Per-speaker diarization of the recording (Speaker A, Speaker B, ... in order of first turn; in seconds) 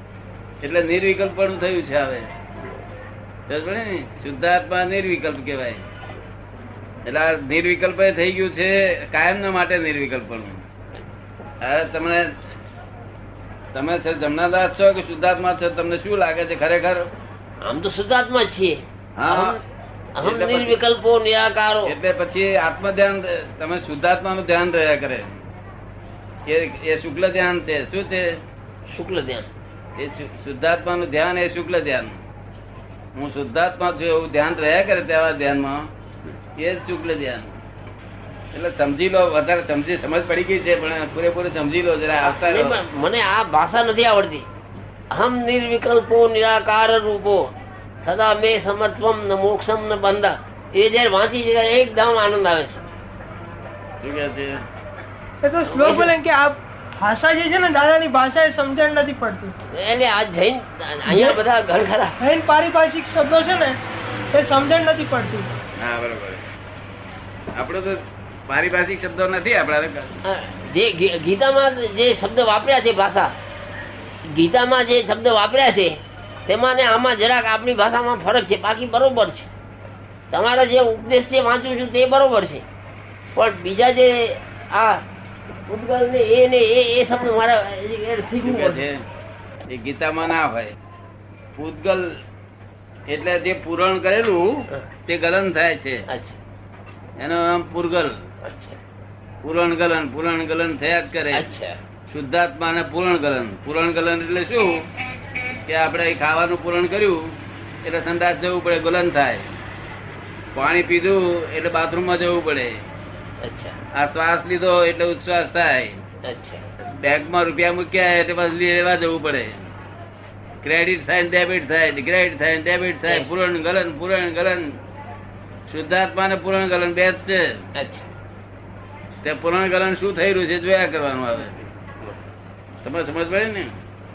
Speaker A: 0.6-2.3, 3.5-5.8, 7.0-10.6, 11.6-12.3, 13.7-17.1, 19.2-19.6, 20.2-20.8, 21.8-25.4, 26.5-28.4, 29.9-32.2, 33.1-35.9, 36.6-37.5, 38.5-42.8, 54.0-54.6, 65.8-66.4, 67.5-70.2, 88.4-89.0, 89.7-90.7, 91.5-92.1, 93.1-96.0, 97.2-98.1, 99.4-101.5, 102.1-104.9, 105.7-107.2, 107.8-109.5, 110.5-112.8, 113.9-116.0, 116.8-119.6, 120.6-124.8, 125.7-127.4, 129.2-131.7, 132.8-133.7
Speaker B: 17.6-19.6, 20.2-21.9, 28.9-29.5, 42.2-44.5, 45.1-47.5, 48.0-52.8, 55.6-56.1, 59.7-62.2, 70.2-73.3, 74.2-79.5, 80.3-82.6, 83.3-85.0, 85.7-88.8, 96.1-96.4, 98.4-98.8, 101.3-101.8, 113.4-113.8, 116.3-116.6, 127.8-128.1
Speaker C: 55.4-59.5, 61.1-61.4, 62.2-63.8, 64.3-65.5